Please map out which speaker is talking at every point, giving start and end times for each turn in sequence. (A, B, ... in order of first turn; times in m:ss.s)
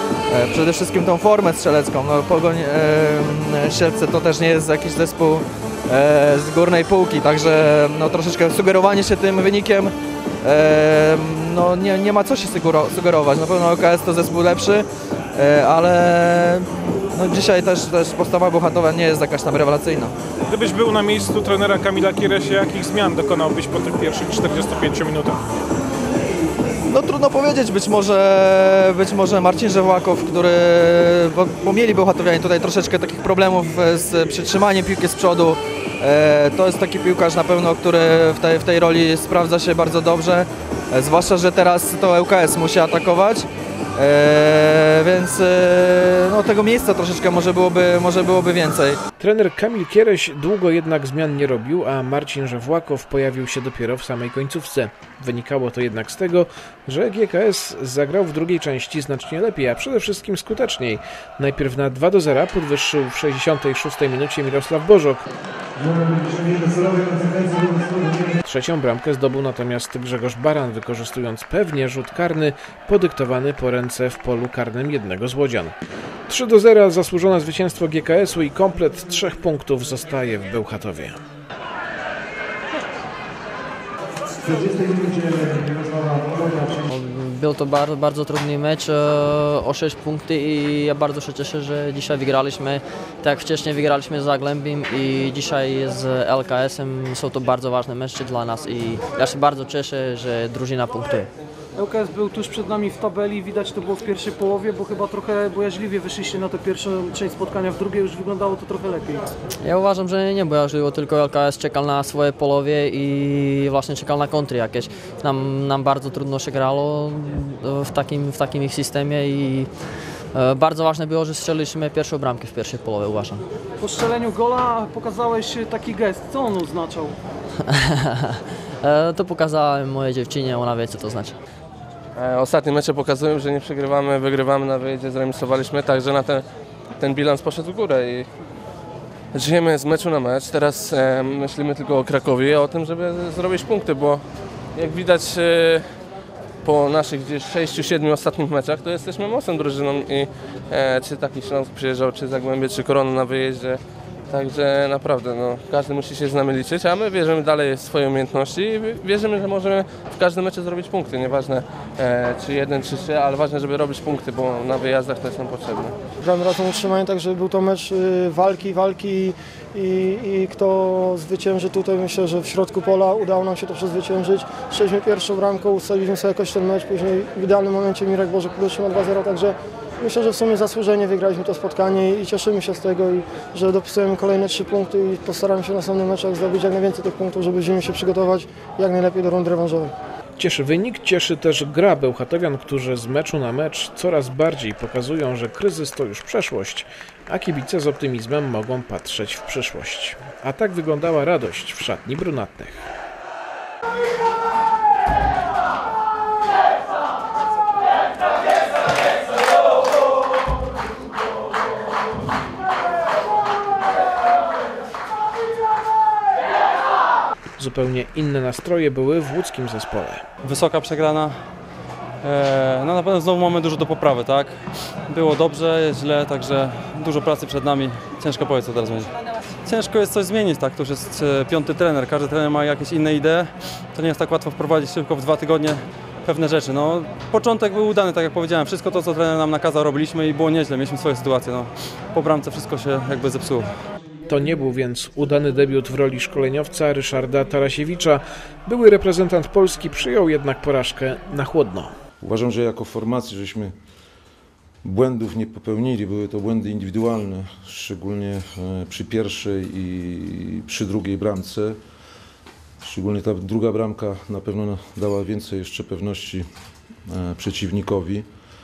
0:00.3-0:20.2 A
0:20.6-0:25.4 B
0:26.9-0:49.0 A
0:49.2-1:05.3 C
1:08.4-1:15.7 C
1:16.3-1:21.2 C
1:26.9-1:41.3 D
1:41.8-1:49.3 E
1:49.6-1:59.7 D
2:00.3-2:03.4 D
2:03.8-2:07.2 E
2:07.6-2:11.4 D
2:12.2-2:18.3 F
2:19.3-2:25.9 F
2:26.6-2:45.9 F
2:46.2-3:09.9 G
3:10.4-3:22.9 C
3:37.6-3:40.2 C
3:40.4-3:41.3 H
3:42.2-3:49.1 H
3:49.6-4:03.8 H
4:04.3-4:11.9 C
4:12.2-4:13.7 I
4:14.8-4:21.8 I
4:22.8-4:26.5 I
4:27.1-4:28.3 I